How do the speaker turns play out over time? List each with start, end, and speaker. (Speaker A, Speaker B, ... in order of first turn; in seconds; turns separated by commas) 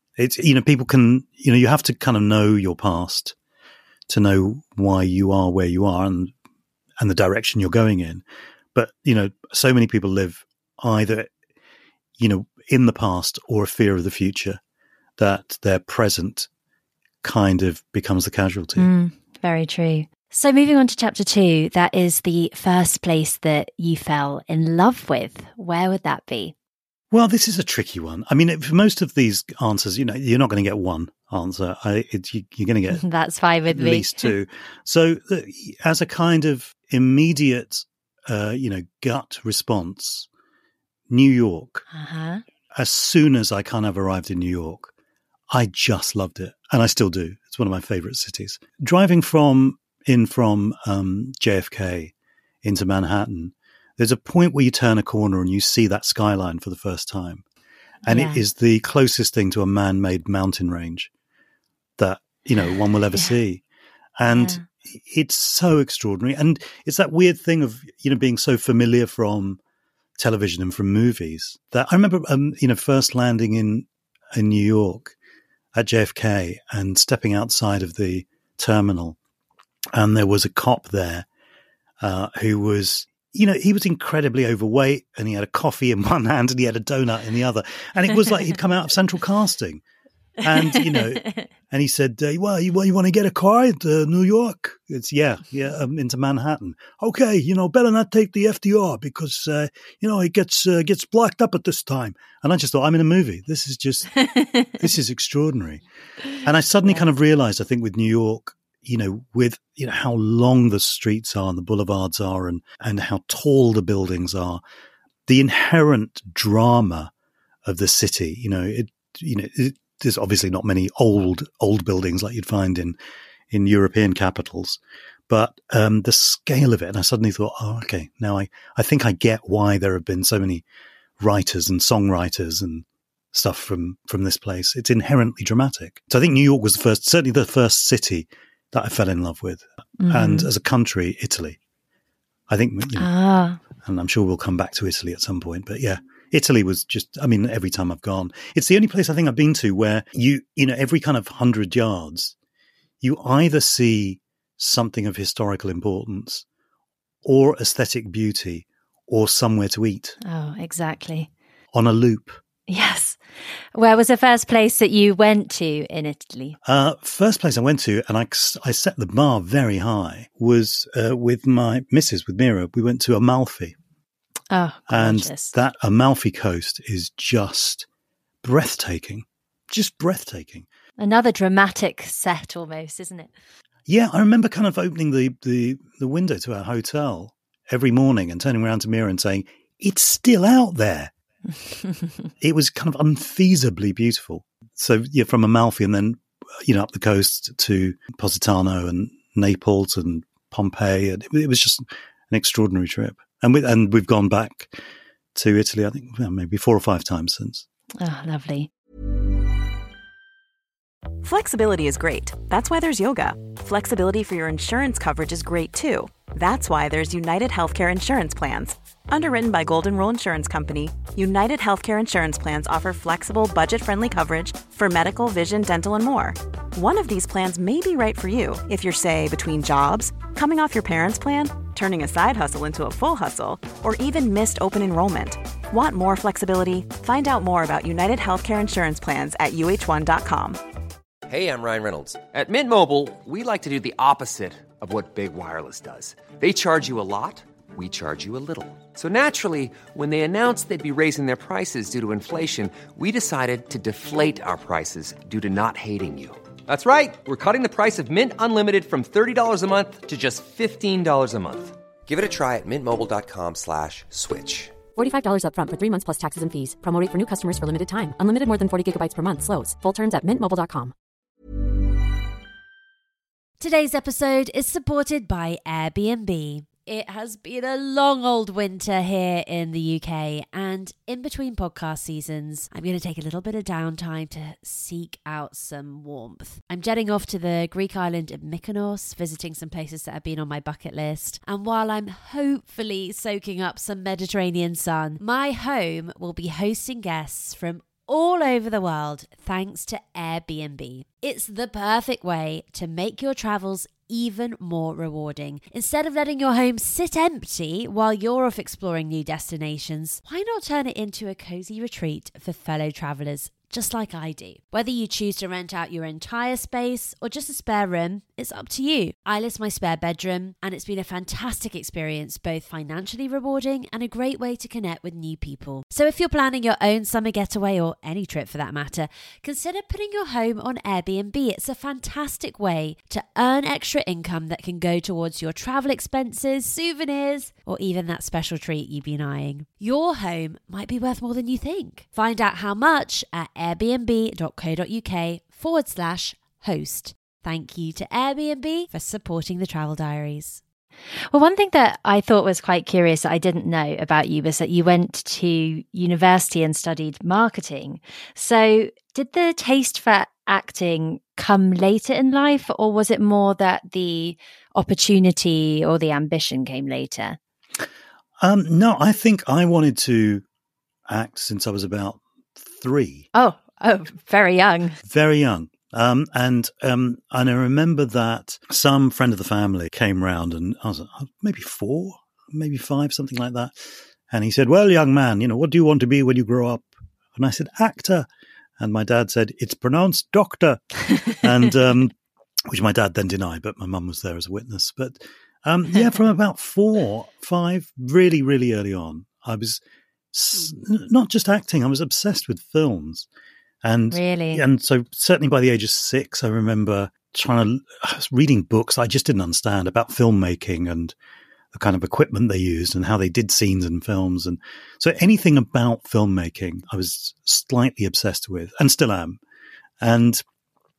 Speaker A: 0.2-3.4, Speaker A: 4.1-6.3, Speaker A: 7.0-11.3, Speaker A: 12.2-14.6, Speaker A: 15.2-16.5, Speaker A: 17.2-18.9, Speaker B: 18.8-26.5, Speaker A: 27.1-33.0, Speaker B: 32.9-34.3, Speaker A: 33.7-40.3, Speaker A: 41.1-41.9, Speaker B: 41.9-42.4, Speaker A: 42.7-44.9, Speaker A: 45.5-57.4, Speaker A: 58.1-61.1, Speaker B: 58.1-58.4, Speaker A: 62.0-63.6, Speaker A: 64.2-69.6, Speaker B: 64.3-64.7, Speaker A: 70.2-75.2, Speaker A: 75.8-79.2, Speaker A: 79.9-81.3, Speaker A: 82.0-89.8, Speaker A: 90.4-105.8, Speaker B: 90.7-91.5, Speaker A: 106.4-114.6, Speaker A: 115.3-117.1, Speaker A: 117.7-123.0, Speaker A: 123.5-130.6, Speaker A: 131.2-141.6, Speaker B: 140.0-140.5, Speaker A: 142.5-143.1, Speaker B: 143.0-143.6, Speaker A: 143.7-152.3, Speaker A: 153.0-156.4, Speaker A: 157.2-160.2, Speaker B: 160.2-161.3, Speaker A: 161.7-162.4, Speaker B: 162.7-163.2, Speaker B: 163.7-166.6, Speaker A: 166.6-173.8, Speaker B: 174.5-175.5, Speaker A: 174.9-177.9, Speaker A: 178.4-180.7, Speaker B: 181.0-183.3, Speaker A: 183.9-191.1, Speaker A: 192.4-204.8, Speaker A: 205.3-207.7, Speaker B: 208.0-208.7, Speaker C: 211.2-240.6, Speaker D: 241.3-264.8, Speaker E: 264.9-270.9, Speaker B: 273.6-350.6, Speaker B: 351.3-367.4, Speaker A: 368.4-370.4, Speaker A: 371.1-373.3, Speaker B: 373.3-375.0, Speaker A: 375.0-388.3, Speaker A: 388.8-392.1, Speaker A: 392.7-399.8, Speaker A: 400.3-403.3, Speaker A: 403.8-411.1, Speaker B: 404.1-404.6, Speaker A: 411.7-419.4, Speaker A: 420.0-420.4